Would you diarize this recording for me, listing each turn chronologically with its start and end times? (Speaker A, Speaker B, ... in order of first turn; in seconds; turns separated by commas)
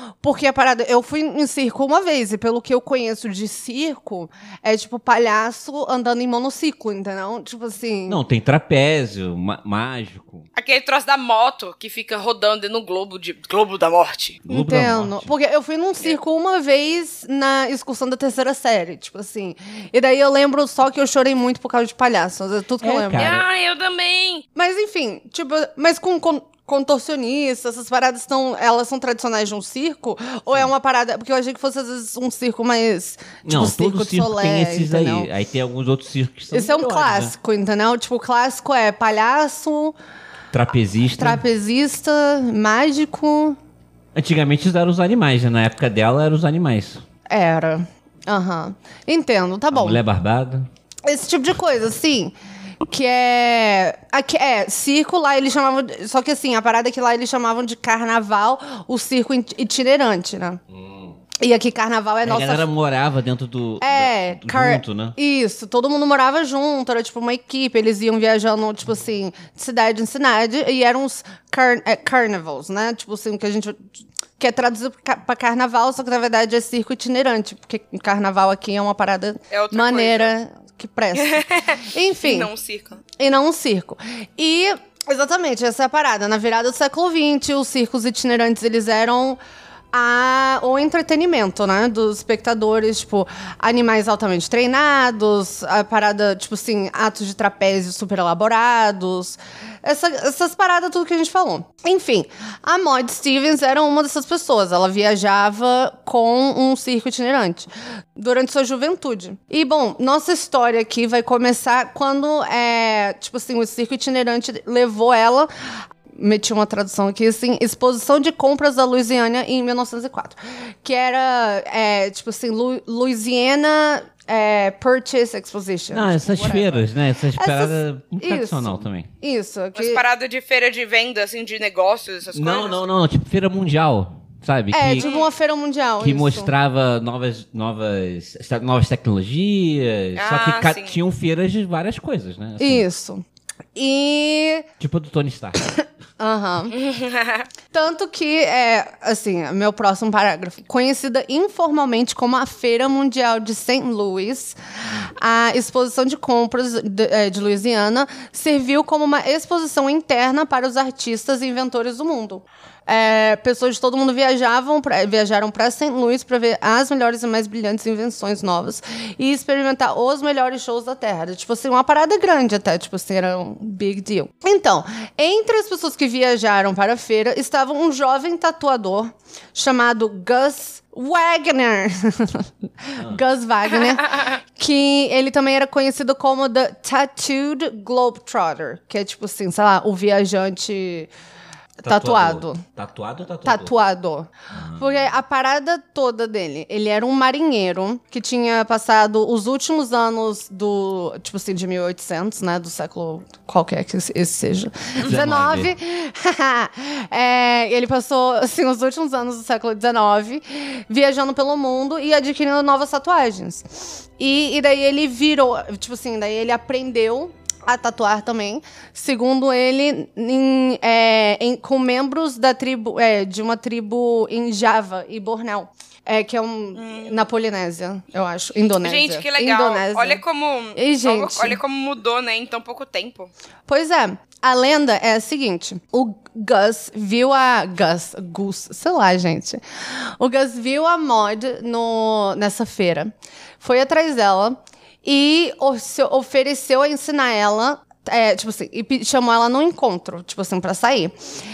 Speaker A: 0.2-8.2, Speaker B: 8.1-10.5, Speaker C: 10.6-14.4, Speaker B: 14.4-15.3, Speaker A: 14.5-23.3, Speaker B: 22.8-23.5, Speaker C: 23.2-24.4, Speaker A: 24.6-35.3, Speaker B: 33.5-37.3, Speaker A: 36.5-40.0, Speaker B: 40.5-41.4, Speaker A: 41.2-43.6, Speaker B: 44.1-47.0, Speaker A: 47.3-50.0, Speaker B: 49.7-50.7, Speaker A: 51.1-60.6, Speaker B: 60.7-61.2, Speaker A: 61.4-62.7, Speaker B: 62.2-65.2, Speaker A: 63.8-82.5, Speaker C: 79.5-80.3, Speaker C: 81.2-83.0, Speaker A: 83.2-89.4, Speaker A: 89.9-115.5, Speaker A: 116.1-130.0, Speaker B: 125.9-129.1, Speaker C: 129.8-132.8, Speaker B: 132.3-135.1, Speaker A: 134.7-136.5, Speaker C: 135.0-135.3, Speaker B: 136.0-142.9, Speaker C: 140.2-141.0, Speaker A: 142.6-143.2, Speaker A: 143.8-144.7, Speaker B: 144.8-145.6, Speaker A: 146.2-146.8, Speaker C: 146.7-147.5, Speaker A: 147.7-154.6, Speaker A: 155.2-191.1, Speaker B: 183.0-183.2, Speaker A: 191.8-192.6, Speaker B: 191.8-193.7, Speaker A: 193.4-230.2, Speaker B: 194.5-195.1, Speaker B: 205.0-205.8, Speaker C: 226.8-227.2, Speaker C: 228.8-233.3, Speaker A: 230.8-231.6, Speaker A: 233.7-239.6, Speaker A: 240.2-251.1